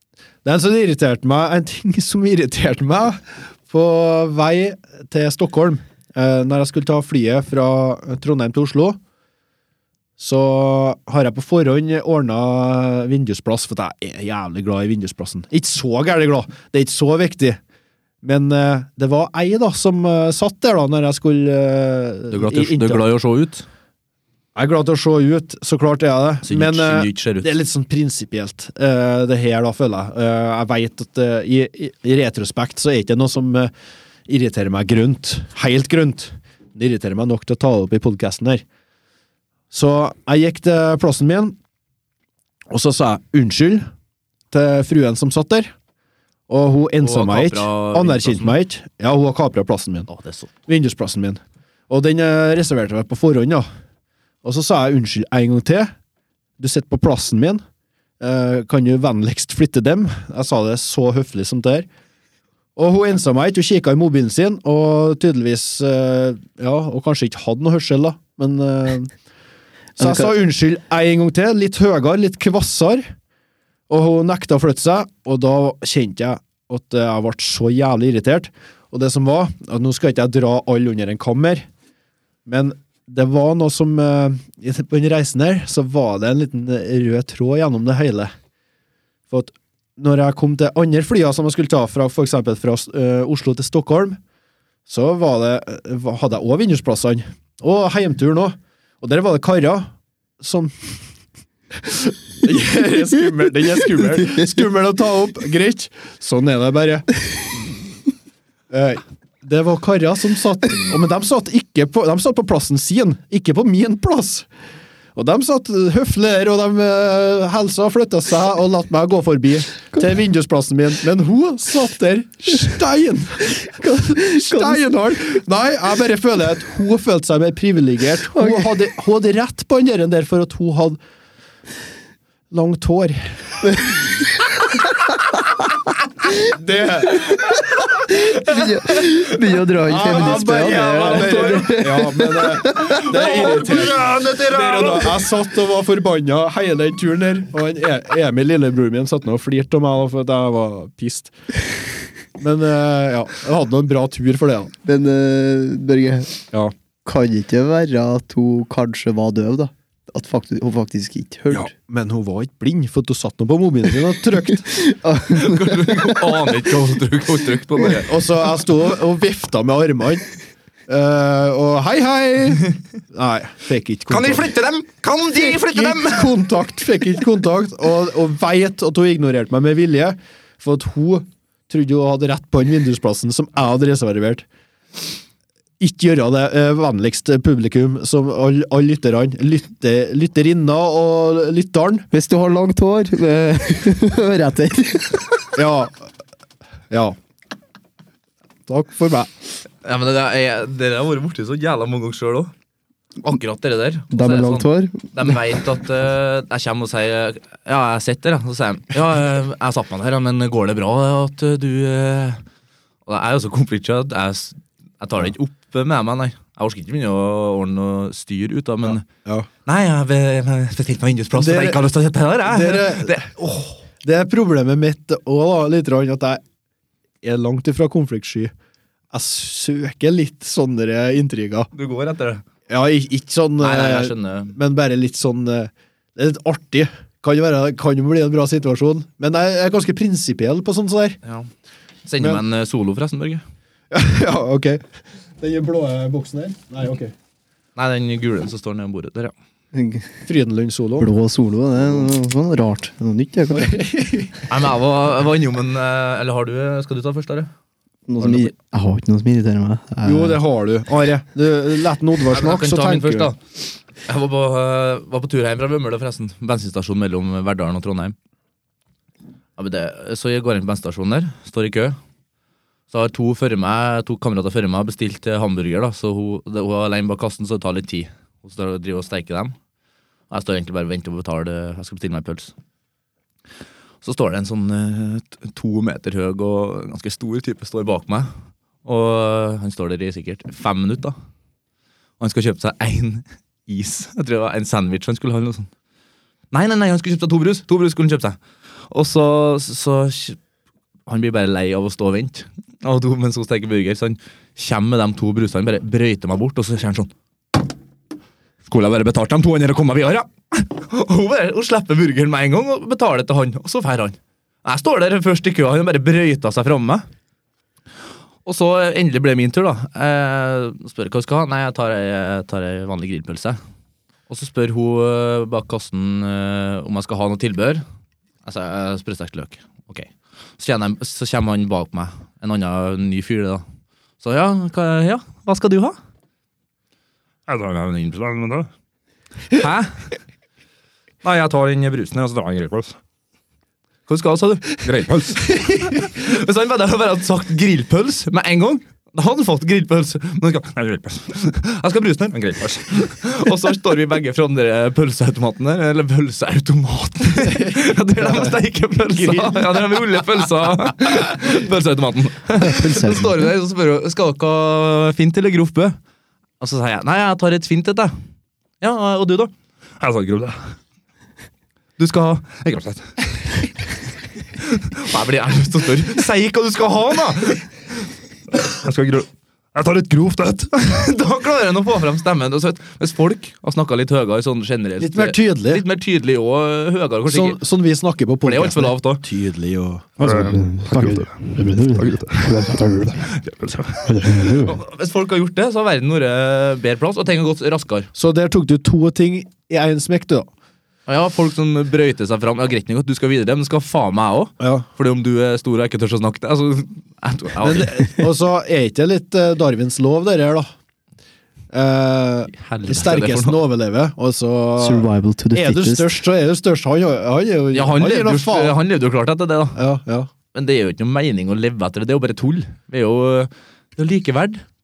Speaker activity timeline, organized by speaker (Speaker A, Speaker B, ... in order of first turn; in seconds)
Speaker A: 0.4-9.0, 10.2-17.6, 18.2-23.0, 24.5-33.7, 34.3-38.6, 39.7-41.5, 42.7-43.9, 44.5-45.7, 46.5-50.1, 50.7-53.6, 54.4-55.9, 56.6-57.6, 58.2-61.9, 62.8-69.1, 70.0-73.0, 73.9-81.7, 82.5-88.3, 89.3-94.2, 94.9-99.9, 100.4-100.7, 101.8-107.2, 108.7-114.5, 115.2-131.0, 132.5-133.3, 136.4-137.5, 139.8-151.3, 152.4-154.7, 161.5-164.8, 167.9-170.3, 170.9-174.5, 175.3-184.4, 185.8-192.1, 195.5-196.0, 196.9-197.1, 198.7-199.3, 218.9-219.5, 221.3-221.8, 222.4-226.4, 227.2-228.5, 229.1-231.7, 232.7-241.2, 243.9-244.8, 245.4-247.1, 250.2-251.1, 253.5-254.4, 260.0-263.3, 358.2-358.5, 359.2-359.6, 385.0-385.8, 387.3-390.4, 398.1-400.5, 404.6-404.9, 407.6-410.7, 411.7-418.8, 419.8-420.3
Speaker B: 22.3-23.6, 26.4-27.5, 47.0-48.5, 50.1-50.5, 140.1-141.8, 142.8-145.1, 165.3-168.1, 174.1-176.3, 199.8-202.5, 203.2-212.4, 213.1-219.1, 219.7-223.3, 231.7-232.4, 233.6-234.6, 241.2-241.5, 242.1-243.4, 247.8-249.3, 254.5-257.5, 258.2-258.5, 262.3-263.4, 264.0-268.1, 269.6-272.0, 272.9-279.5, 280.3-282.5, 284.0-288.3, 288.8-291.1, 292.2-295.7, 296.5-298.4, 298.9-300.4, 301.1-307.1, 308.7-317.1, 318.4-323.6, 324.3-327.8, 328.4-333.6, 334.2-335.9, 337.5-338.7, 339.5-340.1, 341.2-342.9, 344.1-366.0, 366.6-368.1, 368.8-370.6, 372.0-373.0, 374.6-377.7, 378.6-387.6, 388.4-389.2, 393.5-398.1, 401.1-408.2, 412.5-413.6, 417.7-419.8, 420.5-424.6
Speaker C: 70.0-70.3, 123.7-124.9, 128.3-128.7, 138.1-143.5, 154.8-156.4, 157.0-161.7, 164.7-166.3, 192.1-195.5, 204.1-205.4, 249.7-250.2, 251.0-253.8, 258.1-260.4, 362.6-363.5, 390.2-393.2, 394.1-394.8, 414.8-416.1